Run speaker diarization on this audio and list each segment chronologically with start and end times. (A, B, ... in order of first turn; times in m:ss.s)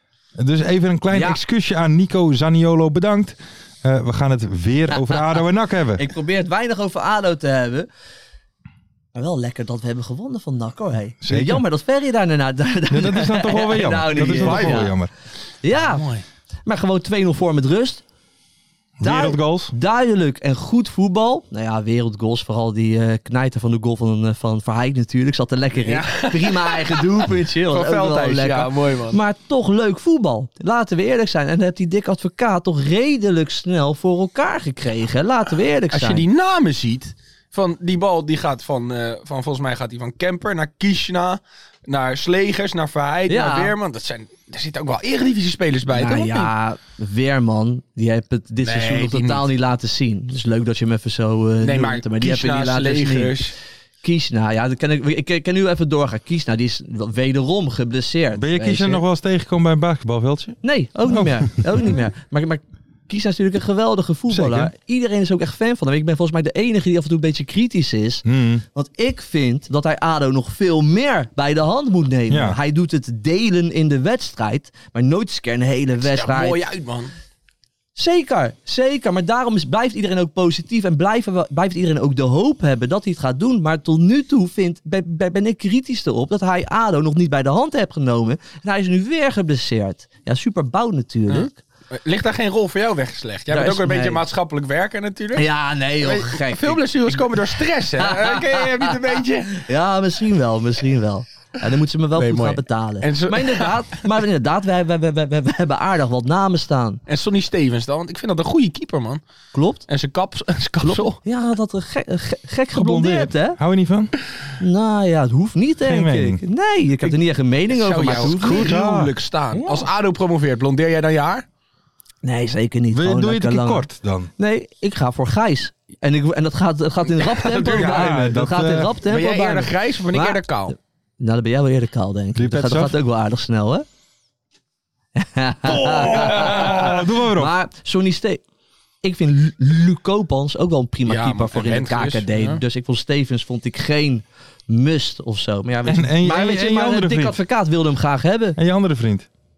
0:00.4-0:06.1 A
0:06.2-0:07.8 B
0:09.1-0:14.9 B
0:11.2-0:11.7 A
0:12.9-0:15.1 A
0:14.2-0:14.9 C
0:15.7-0:16.0 B
0:15.7-0:16.2 C
0:16.6-0:18.0 B
0:19.0-0:19.7 A
0:19.0-0:28.6 B
0:25.8-0:27.0 C
0:27.7-0:29.2 C
0:29.1-0:36.2 B
0:35.9-0:46.5 C
0:43.3-0:43.7 B
0:46.0-0:53.3 B
0:48.6-0:49.5 C
0:51.6-0:53.5 C
0:54.0-0:59.0 B
0:58.3-1:01.8 A
1:00.7-1:08.2 B
1:04.3-1:04.7 A
1:08.2-1:08.6 A
1:08.7-1:16.5 B
1:12.3-1:12.6 A
1:16.0-1:17.1 C
1:18.0-1:31.5 B
1:31.3-1:35.5 C
1:33.5-1:34.2 B
1:35.4-1:37.1 B
1:36.0-1:39.6 C
1:39.6-1:47.0 B
1:42.1-1:43.8 C
1:47.1-1:49.2 C
1:49.5-1:49.8 B
1:49.9-1:51.2 C
1:50.9-1:53.5 B
1:52.7-1:54.1 A
1:54.6-1:58.7 B
1:55.8-1:56.4 A
1:57.7-2:01.4 C
1:58.1-1:59.9 A
2:02.2-2:03.8 B
2:02.9-2:04.3 A
2:04.4-2:10.4 B
2:07.1-2:08.2 C
2:07.6-2:09.0 A
2:09.0-2:10.8 C
2:11.2-2:13.8 B
2:12.3-2:13.0 A
2:15.2-2:16.7 B
2:15.6-2:17.5 A
2:17.3-2:18.4 B
2:19.0-2:28.6 B
2:21.0-2:22.6 C
2:25.8-2:27.4 A
2:28.6-2:29.3 A